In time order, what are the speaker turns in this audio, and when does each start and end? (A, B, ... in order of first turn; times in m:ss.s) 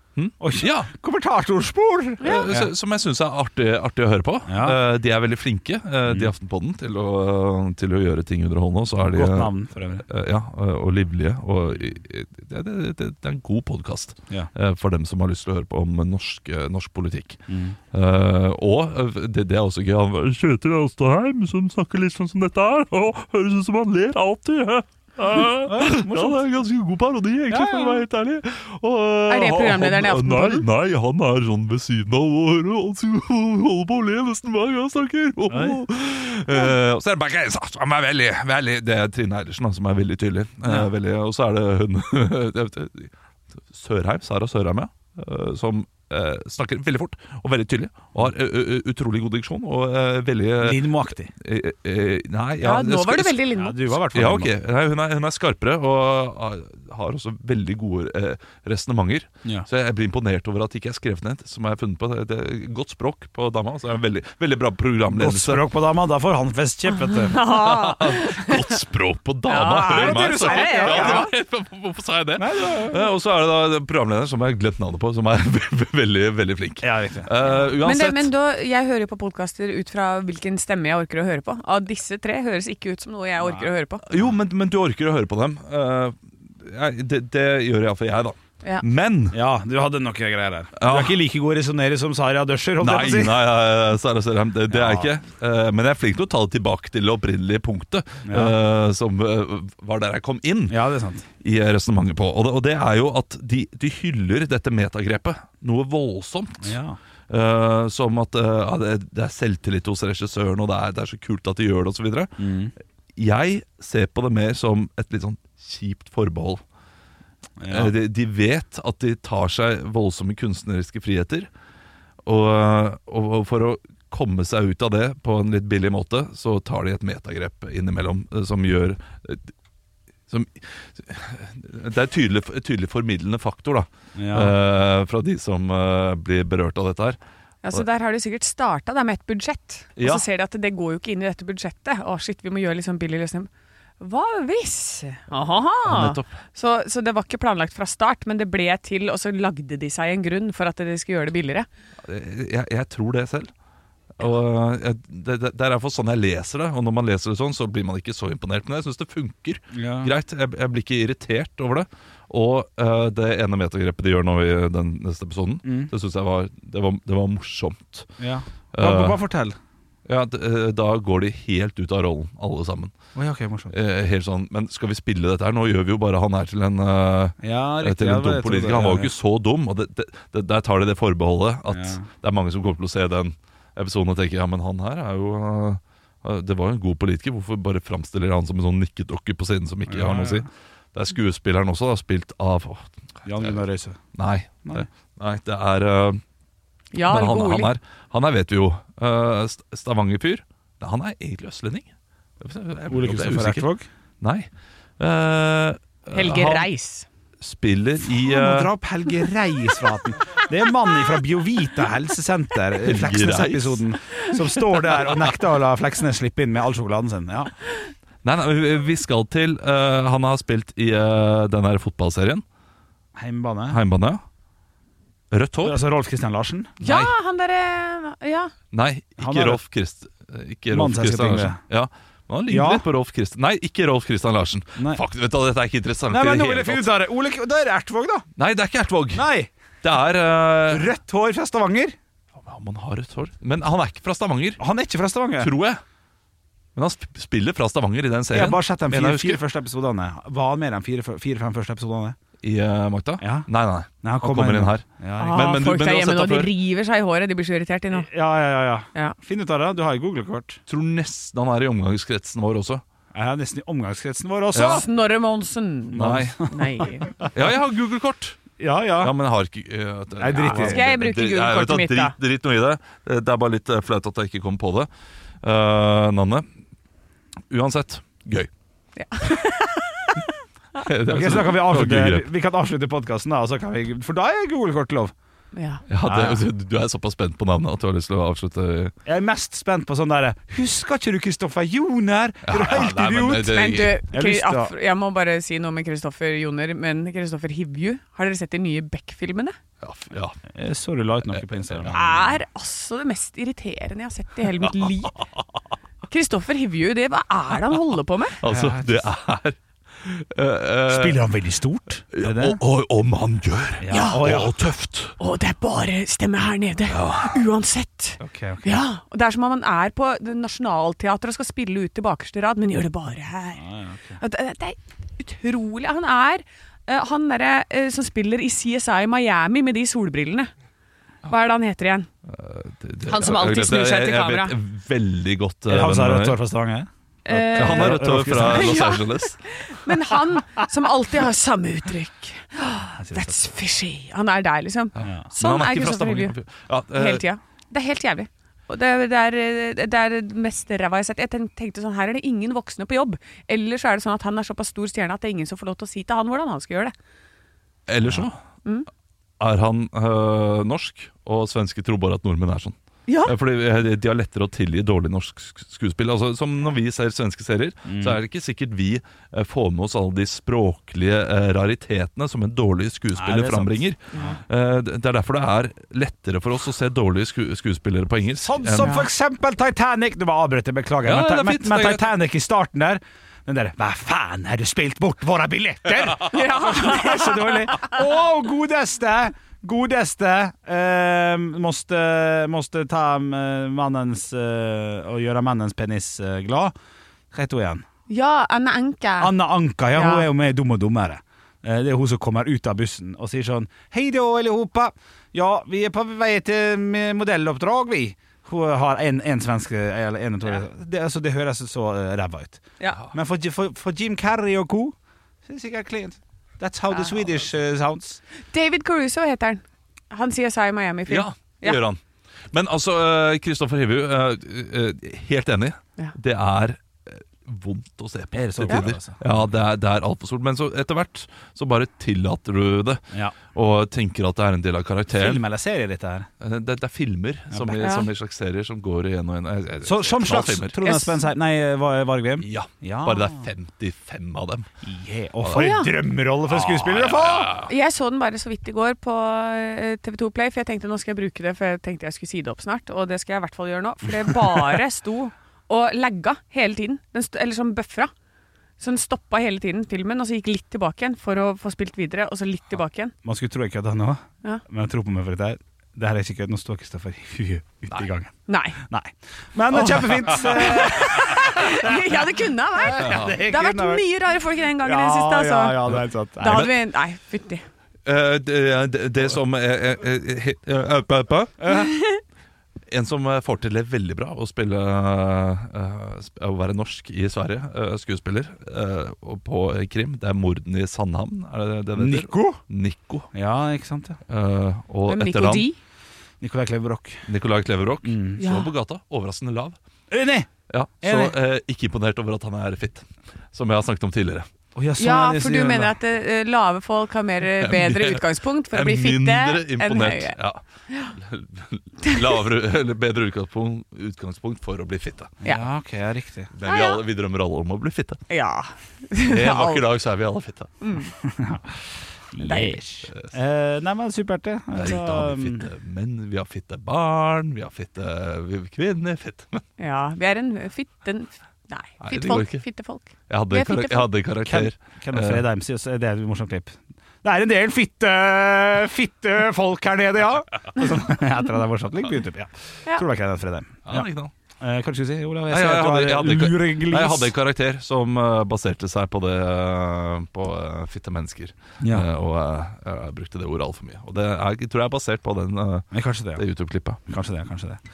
0:00.2-0:00.9 A
0:00.4-0:02.7 B
0:02.2-0:17.4 A
0:04.5-0:04.8 B
0:09.0-0:10.0 B
0:17.5-0:17.8 B
0:17.9-0:43.1 A
0:25.6-0:26.4 B
0:27.5-0:28.0 B
0:29.3-0:30.6 C
0:35.5-0:35.8 B
0:43.7-0:53.4 A
0:50.6-0:51.3 B
0:52.6-0:53.8 C
0:53.6-0:54.5 B
0:53.9-1:05.6 A
1:05.1-1:07.4 B
1:07.0-1:08.8 C
1:07.4-1:18.3 A
1:09.5-1:11.3 C
1:09.8-1:11.3 B
1:12.4-1:13.0 B
1:16.8-1:17.3 B
1:17.4-1:24.1 C
1:23.4-1:23.7 B
1:24.1-1:29.4 A
1:29.3-1:33.5 B
1:30.8-1:31.2 A
1:32.8-1:40.8 A
1:34.7-1:35.1 B
1:38.2-1:38.6 B
1:40.7-1:41.3 B
1:41.4-1:46.8 A
1:46.6-1:47.0 B
1:47.3-1:52.3 A
1:52.4-1:52.7 B
1:53.2-1:56.6 A
1:57.6-1:58.0 B
1:57.7-2:01.5 A
2:02.2-2:09.5 A
2:10.3-2:17.2 A
2:14.2-2:14.6 B
2:17.6-2:23.5 C
2:20.0-2:20.2 A
2:24.0-2:31.7 C
2:25.8-2:26.3 A
2:32.0-2:33.5 A
2:34.2-2:48.1 A
2:39.7-2:40.1 B
2:45.6-2:45.9 B
2:48.2-2:49.6 B
2:48.7-2:49.2 A
2:50.1-2:52.9 A
2:53.2-2:53.8 B
2:53.7-3:13.6 A
2:57.4-2:59.1 B
3:01.7-3:02.0 B
3:09.9-3:10.5 B
3:13.2-3:14.0 B
3:14.2-3:16.2 A
3:16.9-3:17.7 C
3:17.1-3:21.9 A
3:22.4-3:23.7 A
3:22.9-3:23.9 B
3:24.2-3:26.7 A
3:26.1-3:27.1 C
3:27.4-3:28.7 A
3:28.1-3:37.5 B
3:32.8-3:33.8 A
3:38.2-3:42.4 A
3:43.2-3:43.8 B
3:43.7-3:44.2 A
3:45.3-3:45.8 A
3:45.6-3:46.7 B
3:46.8-3:48.5 C
3:46.8-3:47.1 A
3:48.7-3:56.9 A
3:49.2-3:49.6 B
3:50.7-3:51.6 B
3:52.5-3:52.8 B
3:54.8-3:55.0 B
3:56.1-3:58.3 B
3:58.4-3:59.3 A
3:59.1-3:59.5 B
3:59.8-4:00.9 A
4:00.7-4:02.0 B
4:02.4-4:04.6 A
4:04.6-4:05.5 B
4:05.4-4:05.8 A
4:06.8-4:09.4 A
4:08.3-4:12.2 B
4:12.4-4:16.5 A
4:13.2-4:13.5 B
4:14.0-4:15.6 B
4:15.2-4:18.1 C
4:17.9-4:20.6 B
4:20.7-4:22.8 A
4:23.1-4:24.9 B
4:24.5-4:24.9 A
4:24.6-4:27.2 C
4:25.9-4:26.7 B
4:26.0-4:26.5 A
4:27.3-4:28.4 A
4:28.6-4:29.1 B
4:29.0-4:34.9 A
4:30.2-4:30.8 B
4:30.4-4:32.2 C
4:35.4-4:36.5 A
4:37.5-4:38.5 A
4:39.0-4:40.3 C
4:40.8-4:42.3 A
4:41.1-4:45.1 B
4:45.5-4:45.8 C
4:45.9-4:48.9 A
4:46.0-4:46.4 B
4:49.0-4:53.6 B
4:52.4-4:54.0 A
4:53.4-4:59.6 C
4:54.1-4:54.7 B
4:59.8-5:00.4 A
5:00.5-5:02.3 B
5:01.3-5:02.0 A
5:01.9-5:05.2 C
5:06.1-5:08.4 C
5:08.4-5:11.2 A
5:08.5-5:09.0 B
5:10.9-5:12.6 B
5:12.1-5:15.2 A
5:13.8-5:14.6 B
5:13.9-5:14.3 C
5:15.2-5:23.6 C
5:16.9-5:17.4 A
5:18.2-5:18.8 B
5:23.6-5:24.2 B
5:24.2-5:30.5 C
5:31.2-5:32.1 C
5:32.3-5:36.4 A
5:33.1-5:34.6 C
5:35.7-5:38.9 B
5:37.3-5:46.3 C
5:37.5-5:39.4 A
5:43.0-5:43.5 B
5:45.0-5:47.2 A
5:47.0-5:56.9 C
5:57.9-5:58.4 A
5:59.4-6:19.0 A
6:03.1-6:03.3 C
6:07.9-6:08.2 B
6:13.2-6:14.4 B
6:18.4-6:36.7 B
6:21.0-6:22.1 A
6:26.2-6:28.0 C
6:37.3-6:37.9 B
6:38.1-6:39.3 C
6:39.2-6:58.2 B
6:39.9-6:40.3 C
6:58.5-7:01.8 C
7:01.1-7:15.4 A
7:08.3-7:09.2 B
7:15.1-7:16.3 B
7:16.4-7:20.8 A
7:17.5-7:17.8 B
7:17.8-7:18.1 C
7:19.8-7:23.5 B
7:20.8-7:21.2 C
7:22.4-7:24.7 A
7:24.8-7:27.5 B
7:25.5-7:25.9 C
7:26.5-7:27.7 A
7:27.6-7:38.1 C
7:38.8-7:43.1 C
7:43.2-7:48.3 B
7:48.5-7:48.8 C
7:48.8-7:52.2 B
7:49.8-7:50.2 A
7:50.3-7:57.6 C
7:52.8-7:54.1 B
7:53.0-7:53.4 A
7:54.8-7:56.7 B
7:56.5-7:56.7 A
7:58.0-8:01.7 A
8:01.6-8:01.9 B
8:01.7-8:02.2 C
8:02.9-8:13.3 A
8:12.0-8:12.6 B
8:13.3-8:14.2 B
8:14.3-8:15.7 A
8:15.1-8:15.8 C
8:16.4-8:17.3 B
8:17.3-8:19.8 A
8:18.0-8:18.4 B
8:18.4-8:18.7 C
8:20.1-8:20.5 B
8:20.7-8:24.5 A
8:21.0-8:21.4 B
8:24.8-8:26.0 B
8:25.0-8:30.4 C
8:27.6-8:30.6 A
8:31.1-8:35.4 A
8:35.4-8:36.5 B
8:36.5-8:38.2 A
8:36.6-8:37.0 C
8:38.3-8:39.8 C
8:39.3-8:40.7 A
8:40.8-8:41.1 C
8:41.2-8:41.7 B
8:42.3-8:45.7 B
8:42.4-8:42.8 C
8:43.1-8:43.3 A
8:44.8-8:49.6 A
8:49.8-8:54.1 C
8:52.0-8:52.6 A
8:53.3-8:55.4 A
8:54.4-9:04.1 B
9:03.9-9:04.3 A
9:04.6-9:07.3 B
9:05.5-9:17.0 A
9:11.8-9:12.1 B
9:15.9-9:16.4 B
9:17.1-9:17.8 B